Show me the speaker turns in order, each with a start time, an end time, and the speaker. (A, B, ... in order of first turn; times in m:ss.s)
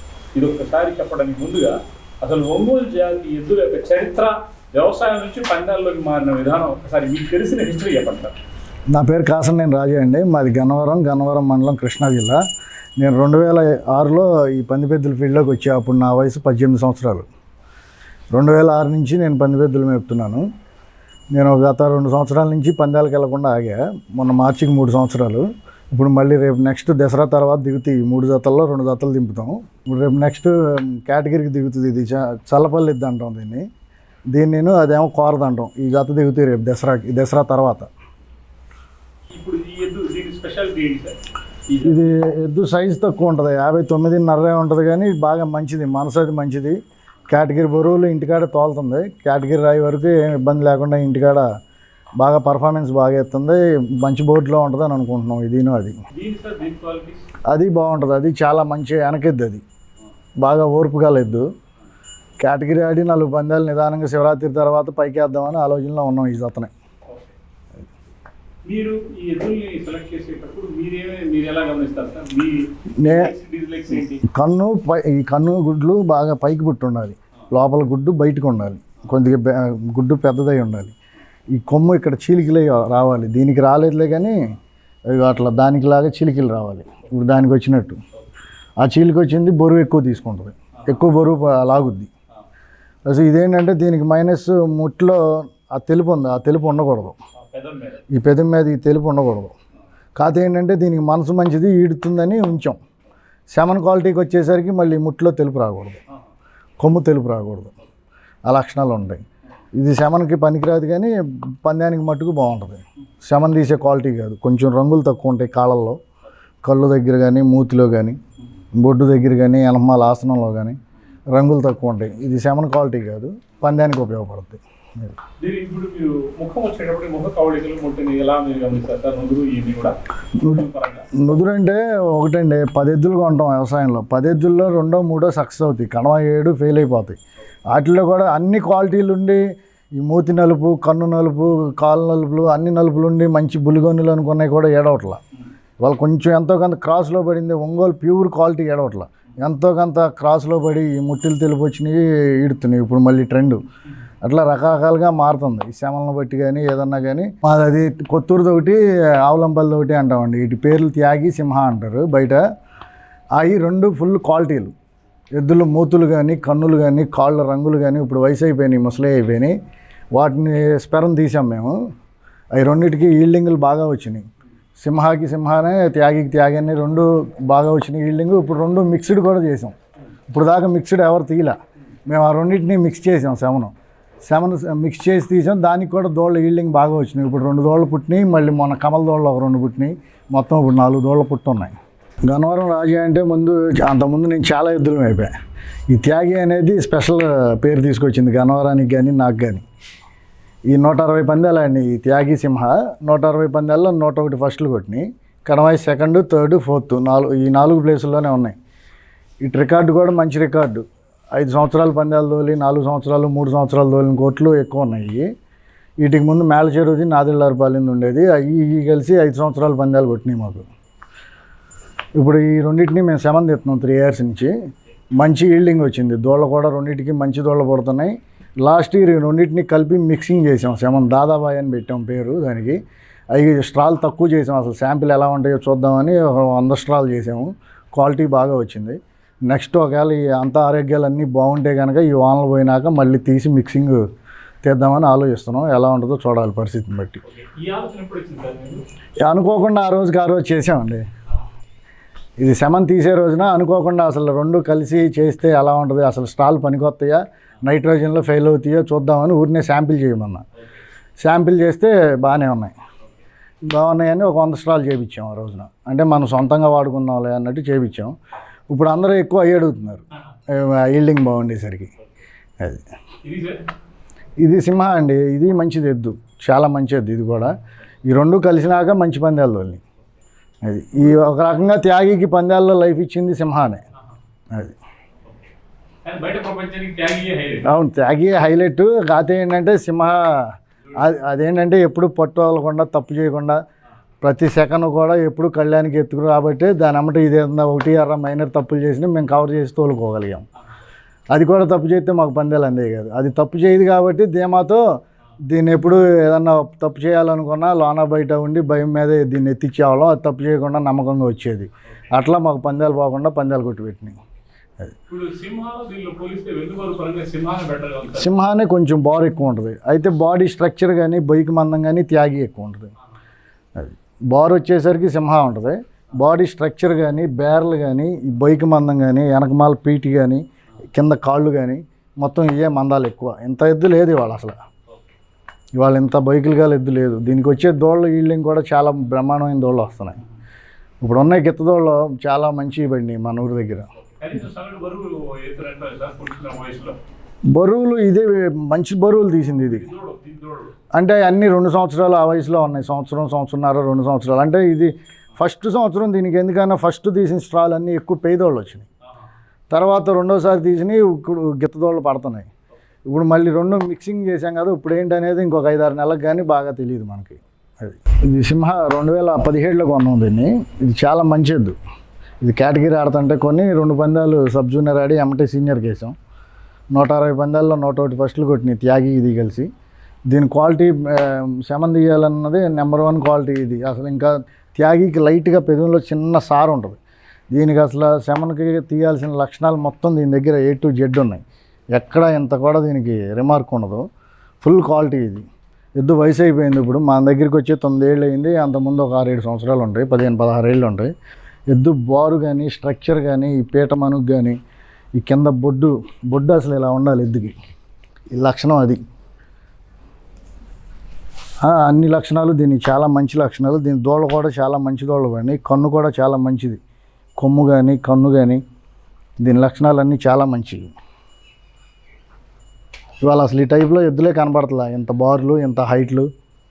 0:00.3-0:08.3 A
0:08.9-0:12.4 B
0:13.0-0:17.3 B
0:18.3-0:20.5 B
0:21.3-0:33.7 B
0:34.3-0:37.9 B
0:39.3-0:42.2 A
0:41.8-0:46.8 B
0:47.3-0:51.5 B
0:52.2-0:56.0 B
0:56.1-0:57.2 A
0:57.5-0:59.6 B
1:00.4-1:01.5 B
1:02.4-1:06.7 B
1:08.7-1:14.3 A
1:13.0-1:13.3 B
1:14.2-1:20.9 B
1:21.5-1:24.4 B
1:25.1-1:28.0 B
1:28.8-1:32.1 B
1:33.0-1:37.2 B
1:37.5-1:38.0 A
1:38.1-1:39.5 B
1:40.2-1:42.8 B
1:43.5-1:46.0 B
1:46.8-1:47.7 B
1:48.4-1:49.2 B
1:49.7-1:56.0 B
1:56.6-1:58.2 B
1:58.8-2:00.8 B
2:01.3-2:05.2 B
2:05.4-2:11.1 A
2:10.4-2:10.6 B
2:11.1-2:17.2 B
2:17.7-2:19.4 B
2:20.0-2:25.2 B
2:25.8-2:33.6 B
2:34.2-2:42.4 B
2:43.4-2:44.7 B
2:45.3-2:49.6 B
2:50.1-2:51.8 B
2:52.5-2:54.3 B
2:54.8-2:59.7 B
3:00.3-3:03.7 B
3:04.2-3:11.8 B
3:12.3-3:15.3 B
3:15.9-3:19.6 B
3:20.7-3:28.6 B
3:29.4-3:35.3 B
3:36.0-3:40.7 B
3:42.2-3:44.5 B
3:45.2-3:52.8 B
3:53.3-4:04.0 B
4:04.6-4:07.2 B
4:07.2-4:08.8 A
4:09.2-4:11.0 B
4:12.4-4:20.4 B
4:21.2-4:22.7 B
4:23.7-4:28.1 B
4:28.7-4:31.9 B
4:32.6-4:32.8 B
4:33.2-4:33.6 A
4:34.4-4:37.5 B
4:38.0-4:39.8 B
4:40.6-4:43.8 B
4:46.0-4:47.7 A
4:47.7-4:53.6 B
4:54.2-5:00.4 B
5:01.3-5:04.8 B
5:05.5-5:14.2 B
5:15.1-5:18.3 A
5:18.1-5:22.9 B
5:23.8-5:34.6 B
5:35.7-5:40.2 B
5:41.0-5:43.9 B
5:44.2-5:47.0 A
5:47.5-5:49.9 B
5:49.6-5:50.7 A
5:50.9-5:58.9 B
5:59.7-6:02.5 B
6:03.0-6:11.8 B
6:12.4-6:16.1 B
6:16.9-6:19.7 B
6:20.3-6:27.0 B
6:27.5-6:31.4 B
6:31.9-6:34.0 B
6:34.6-6:41.1 B
6:41.7-6:44.6 B
6:45.2-6:47.6 B
6:48.3-6:49.0 B
6:51.6-6:56.8 B
6:57.4-6:58.6 B
6:59.4-7:00.9 B
7:03.2-7:06.3 B